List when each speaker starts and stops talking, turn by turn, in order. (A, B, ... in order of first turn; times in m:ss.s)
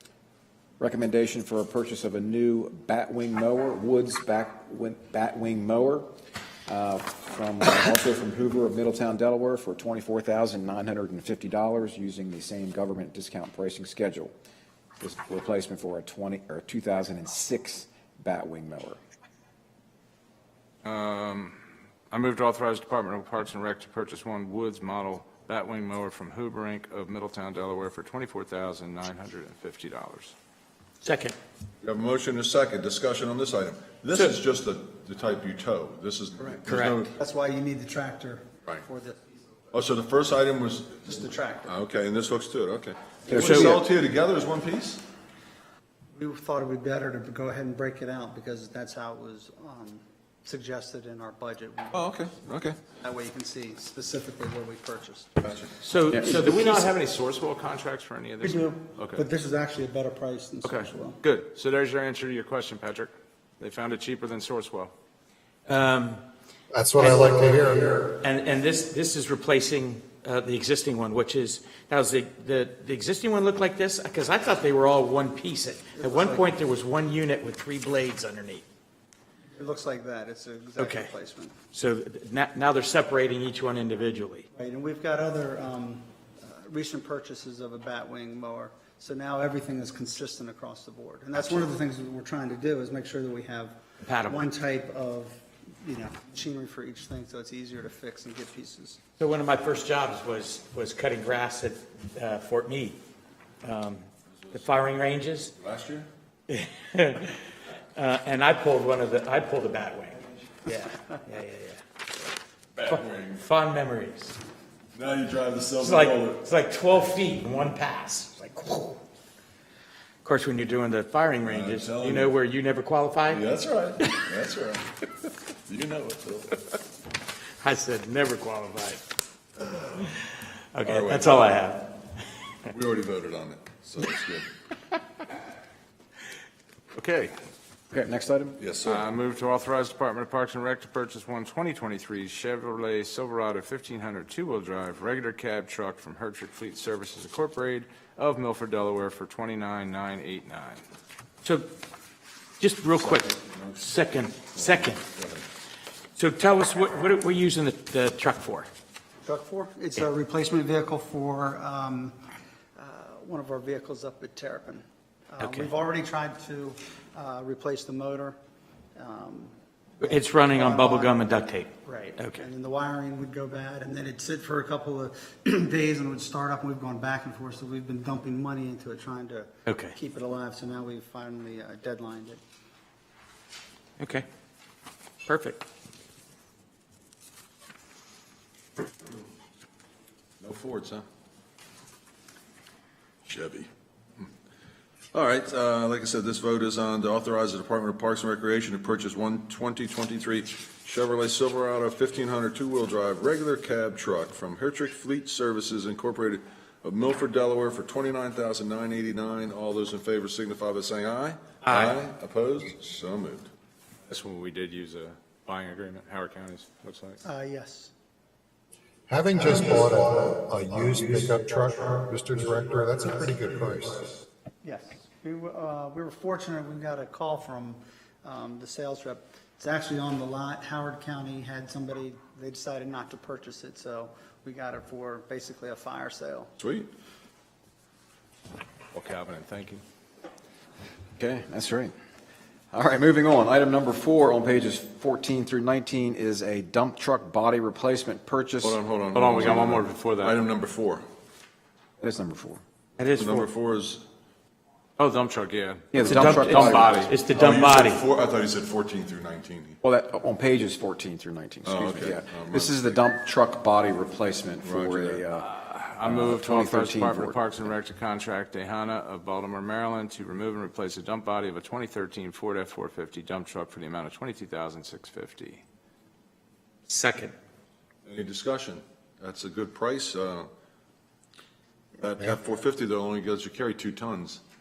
0:00.8-0:06.1 A
0:06.7-0:14.3 A
0:15.0-0:19.0 A
0:20.8-0:21.6 B
0:22.1-0:30.3 B
0:31.0-0:31.4 C
0:31.8-0:37.1 D
0:36.7-0:37.1 C
0:37.1-0:39.5 E
0:39.7-0:45.0 D
0:41.1-0:41.8 E
0:43.3-0:43.8 A
0:43.4-0:43.8 C
0:46.2-0:52.1 E
0:51.9-0:52.8 D
0:52.9-0:55.3 E
0:55.4-0:55.7 D
0:55.8-0:56.9 C
0:56.2-0:59.2 B
0:58.4-1:01.2 E
1:00.6-1:04.9 B
1:05.7-1:06.2 C
1:06.7-1:08.1 F
1:07.0-1:07.3 C
1:08.1-1:18.6 C
1:16.0-1:16.6 E
1:19.6-1:21.6 E
1:20.8-1:21.1 C
1:21.7-1:24.4 C
1:24.5-1:39.0 E
1:34.1-1:34.5 C
1:39.2-1:43.0 C
1:43.6-1:45.5 C
1:45.6-1:46.1 D
1:46.5-1:47.4 C
1:48.0-1:51.8 C
1:52.8-1:53.5 D
1:52.9-1:54.4 C
1:54.9-1:56.5 D
1:55.8-1:59.0 C
2:00.2-2:03.4 C
2:01.4-2:02.4 D
2:03.3-2:06.6 D
2:07.6-2:09.0 C
2:09.9-2:12.0 C
2:10.8-2:11.6 D
2:12.7-2:14.5 D
2:16.9-2:17.3 B
2:17.9-2:18.6 A
2:18.6-2:19.1 D
2:18.8-2:30.8 B
2:32.6-2:35.0 C
2:33.0-2:33.9 D
2:34.5-2:35.5 D
2:36.2-2:38.7 C
2:39.2-2:42.2 E
2:42.8-2:48.4 E
2:45.4-2:45.7 C
2:49.0-3:02.4 E
2:50.0-2:52.5 C
2:59.7-3:00.0 C
3:04.0-3:04.3 C
3:05.2-3:05.6 C
3:10.4-3:11.1 D
3:13.2-3:14.3 D
3:15.1-3:33.5 D
3:31.6-3:31.9 C
3:34.1-3:37.2 B
3:37.2-3:37.9 E
3:39.1-3:44.2 F
3:44.6-3:56.5 E
3:56.6-3:56.9 D
3:58.9-3:59.8 B
4:01.2-4:01.9 A
4:02.7-4:08.8 A
4:08.6-4:11.0 D
4:09.1-4:10.4 B
4:12.0-4:12.6 A
4:13.0-4:13.4 C
4:13.0-4:14.0 D
4:15.0-4:17.2 B
4:15.9-4:17.1 A
4:16.1-4:18.0 C
4:17.3-4:19.8 D
4:19.8-4:25.5 A
4:21.6-4:23.0 D
4:24.6-4:25.2 D
4:25.4-4:35.6 B
4:26.0-4:27.4 A
4:36.9-4:37.3 C
4:38.1-4:40.5 D
4:42.0-4:44.4 D